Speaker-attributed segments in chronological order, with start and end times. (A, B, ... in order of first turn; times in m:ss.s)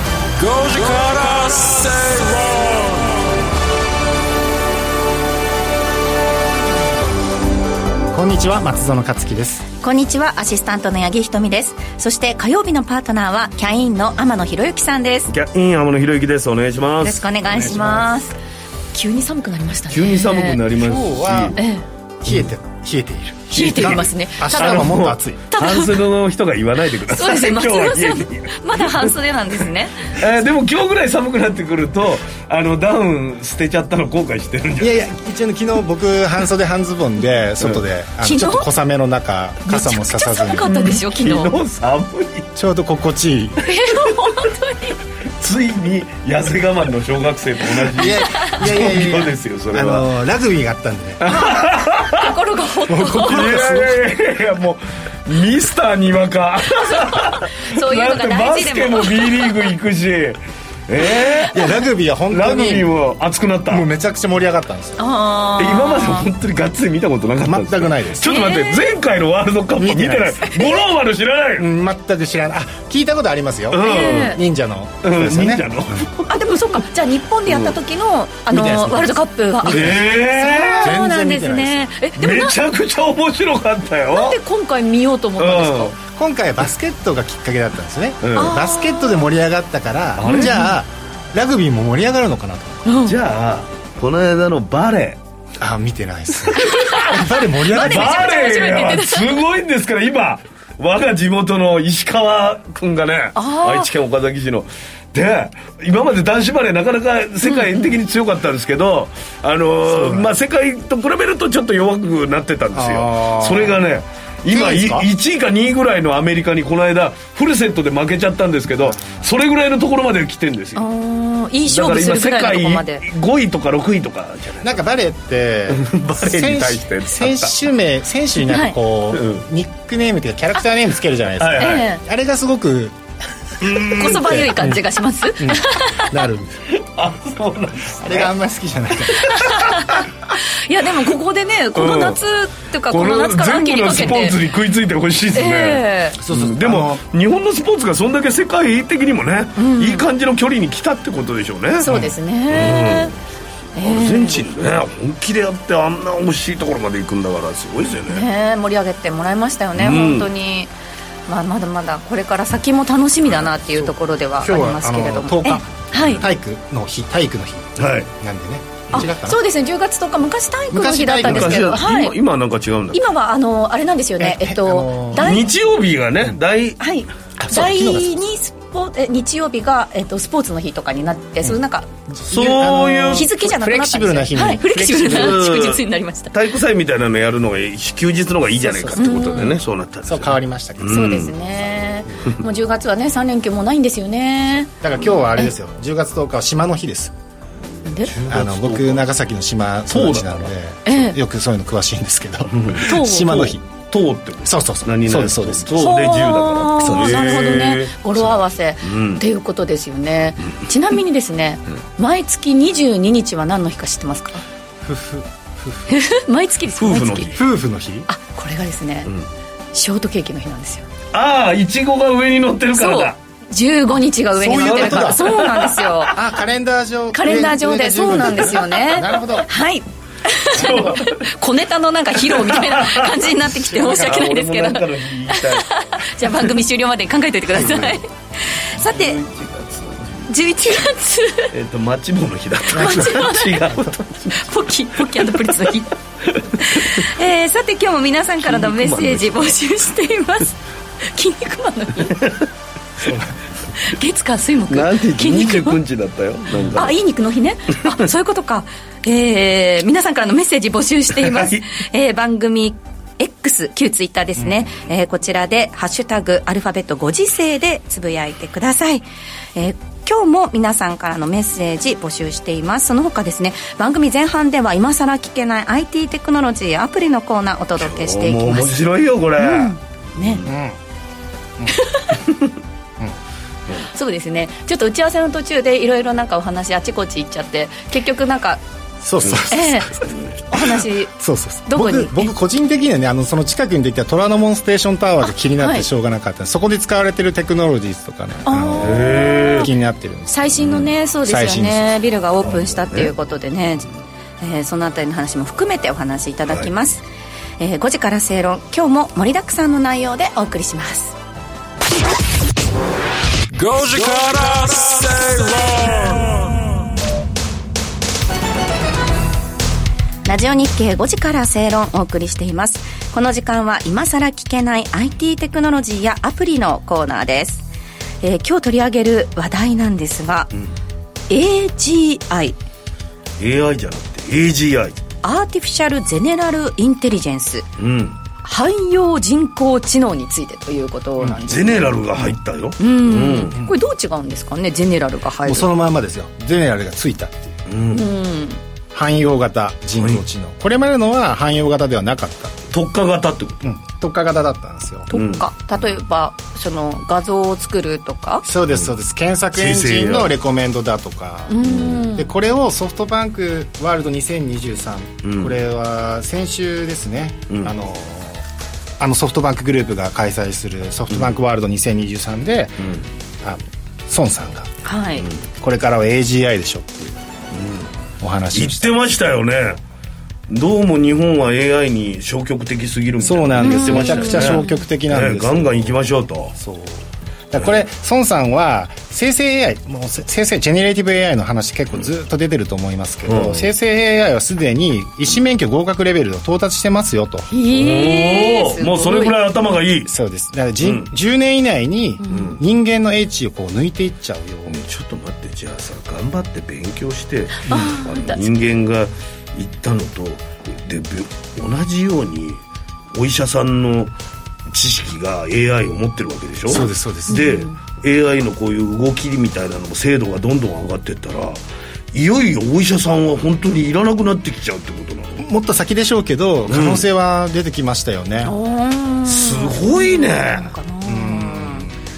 0:00.4-0:03.3 A
0:08.1-0:09.6 B
0:09.8-0:15.3 C
0:15.3-0:17.2 D
0:17.0-0:18.3 C
0:17.4-0:18.1 B
0:18.9-0:20.6 C
0:19.9-0:21.6 D
0:20.8-0:21.6 B
0:21.6-0:21.8 C
0:22.2-0:25.4 B
0:23.5-0:24.9 C
0:23.5-0:29.1 D
0:25.5-0:25.9 C
0:27.1-0:30.2 C
0:30.2-0:34.9 D
0:34.8-0:41.0 B
0:38.2-0:38.7 C
0:39.6-0:41.5 C
0:40.6-0:42.5 D
0:42.6-0:43.7 B
0:43.6-0:45.0 C
0:45.4-0:50.1 D
0:47.9-0:51.5 B
0:48.3-0:48.6 C
0:51.2-0:52.3 D
0:52.1-0:53.6 C
0:52.9-0:54.0 B
0:53.2-1:01.6 D
0:56.8-0:59.5 C
1:01.5-1:02.9 B
1:02.3-1:03.9 D
1:03.7-1:05.0 B
1:05.0-1:06.2 C
1:05.6-1:11.7 D
1:07.4-1:08.4 B
1:08.2-1:08.9 C
1:09.8-1:10.5 B
1:11.6-1:16.1 B
1:13.7-1:14.4 D
1:13.8-1:14.4 C
1:15.0-1:16.2 D
1:16.3-1:22.6 C
1:18.5-1:21.9 B
1:19.6-1:20.9 D
1:22.2-1:24.4 D
1:24.1-1:26.0 C
1:25.4-1:26.0 D
1:26.0-1:32.8 B
1:28.2-1:28.6 D
1:28.3-1:29.3 C
1:30.2-1:30.7 D
1:30.2-1:30.6 C
1:32.8-1:33.1 C
1:33.0-1:35.2 D
1:35.6-1:38.4 B
1:36.6-1:37.0 C
1:36.7-1:37.2 D
1:37.7-1:39.4 C
1:37.7-2:00.8 D
1:43.3-1:43.9 C
1:47.4-1:47.9 C
1:49.9-1:50.3 B
1:52.7-1:53.8 B
1:54.5-1:55.1 B
1:58.8-1:59.3 B
2:00.8-2:03.0 C
2:01.7-2:04.9 D
2:04.6-2:13.0 B
2:05.7-2:07.6 D
2:08.4-2:08.7 C
2:09.1-2:09.4 D
2:11.4-2:11.8 D
2:11.6-2:12.0 C
2:13.6-2:14.8 B
2:13.8-2:16.1 C
2:15.4-2:16.6 B
2:16.7-2:18.3 D
2:18.0-2:19.3 B
2:19.2-2:20.0 C
2:19.5-2:19.8 D
2:20.7-2:24.4 C
2:21.7-2:22.2 D
2:22.9-2:31.9 D
2:25.3-2:26.2 C
2:26.2-2:27.0 B
2:29.6-2:30.0 C
2:31.8-2:33.1 C
2:31.8-2:32.1 B
2:32.5-2:33.1 D
2:33.8-2:34.4 C
2:33.8-2:38.3 D
2:38.1-2:40.7 C
2:39.8-2:40.3 D
2:41.3-2:46.2 C
2:44.4-2:49.4 B
2:47.8-2:48.1 D
2:48.9-2:52.1 C
2:50.7-2:51.8 B
2:51.2-2:53.0 D
2:52.9-2:55.5 C
2:54.2-2:55.4 B
2:55.2-2:56.8 D
2:56.8-3:01.9 C
2:57.4-2:58.1 B
3:02.1-3:05.4 B
3:02.3-3:03.2 D
3:03.1-3:06.3 C
3:05.0-3:11.3 D
3:08.6-3:09.5 B
3:08.9-3:09.6 C
3:10.0-3:11.2 B
3:10.9-3:14.7 C
3:14.8-3:17.1 B
3:17.8-3:18.1 C
3:18.1-3:19.1 D
3:18.3-3:23.6 B
3:19.9-3:20.5 D
3:20.8-3:21.2 C
3:22.5-3:29.2 D
3:22.8-3:23.5 C
3:24.4-3:25.7 B
3:25.8-3:34.4 C
3:34.8-3:36.0 B
3:35.9-3:37.3 C
3:36.8-3:37.4 D
3:37.2-3:38.1 B
3:38.1-3:39.1 C
3:39.7-3:40.8 C
3:41.1-3:43.2 D
3:42.7-3:46.1 C
3:44.4-3:45.6 B
3:44.6-3:46.1 D
3:46.1-3:49.5 B
3:47.1-3:59.2 C
3:50.5-3:51.3 D
3:52.2-3:55.8 D
3:57.6-3:57.9 D
3:58.8-4:00.3 D
4:00.3-4:01.5 C
4:01.5-4:04.5 D
4:02.7-4:03.6 C
4:02.8-4:03.3 B
4:04.3-4:05.9 C
4:05.1-4:05.6 D
4:06.3-4:07.0 D
4:06.6-4:10.6 C
4:08.4-4:09.6 D
4:11.1-4:12.3 C
4:13.0-4:13.3 B
4:13.8-4:15.8 C
4:14.7-4:16.9 D
4:16.7-4:29.0 C
4:21.2-4:21.6 D
4:24.4-4:24.6 B
4:29.6-4:38.8 C
4:37.8-4:40.5 D
4:39.4-4:40.4 C
4:40.4-4:40.8 B
4:41.7-4:42.5 C
4:43.9-4:48.6 C
4:49.0-5:01.9 B
4:49.5-4:49.9 C
4:50.1-4:50.4 D
4:50.5-4:51.1 C
4:51.7-4:52.3 C
4:55.2-4:55.8 C
4:58.4-4:59.7 C
4:58.8-4:59.7 D
5:00.3-5:03.9 C
5:02.5-5:03.1 D
5:04.4-5:07.0 C
5:07.6-5:11.1 C
5:13.5-5:16.6 A
5:20.2-5:27.7 C
5:28.2-5:30.5 C
5:31.3-5:32.6 C
5:33.4-5:35.0 D
5:35.2-5:37.6 C
5:37.8-5:38.2 D
5:38.4-5:41.9 C
5:41.5-5:43.6 D
5:42.8-5:45.7 C
5:45.4-5:47.6 B
5:47.7-5:48.0 D
5:47.9-5:48.6 C
5:48.9-5:52.7 B
5:52.7-5:53.6 D
5:53.6-5:55.1 B
5:55.1-5:58.4 C
5:55.1-5:55.4 D
5:58.4-6:08.4 B
5:59.6-6:00.3 D
6:01.5-6:02.3 C
6:01.6-6:02.0 D
6:05.2-6:05.5 D
6:09.0-6:12.8 B
6:13.4-6:14.7 B
6:14.8-6:15.2 C
6:15.6-6:17.2 B
6:17.5-6:17.9 D
6:18.2-6:18.9 B
6:18.5-6:19.8 D
6:20.5-6:26.5 D
6:23.2-6:26.0 B
6:23.6-6:24.8 C
6:26.5-6:37.5 B
6:33.3-6:33.7 D
6:37.5-6:39.4 C
6:37.7-6:40.1 D
6:40.0-6:44.8 B
6:40.8-6:41.1 D
6:42.2-6:42.6 C
6:42.3-6:42.6 D
6:44.7-6:52.6 D
6:47.6-6:48.5 C
6:53.1-6:54.1 D
6:54.7-7:01.6 D
6:56.7-6:57.4 B
6:57.3-6:57.7 C
7:02.1-7:05.4 D
7:05.4-7:08.5 B
7:06.7-7:07.0 D
7:08.4-7:11.9 C
7:09.3-7:10.7 D
7:11.0-7:11.9 B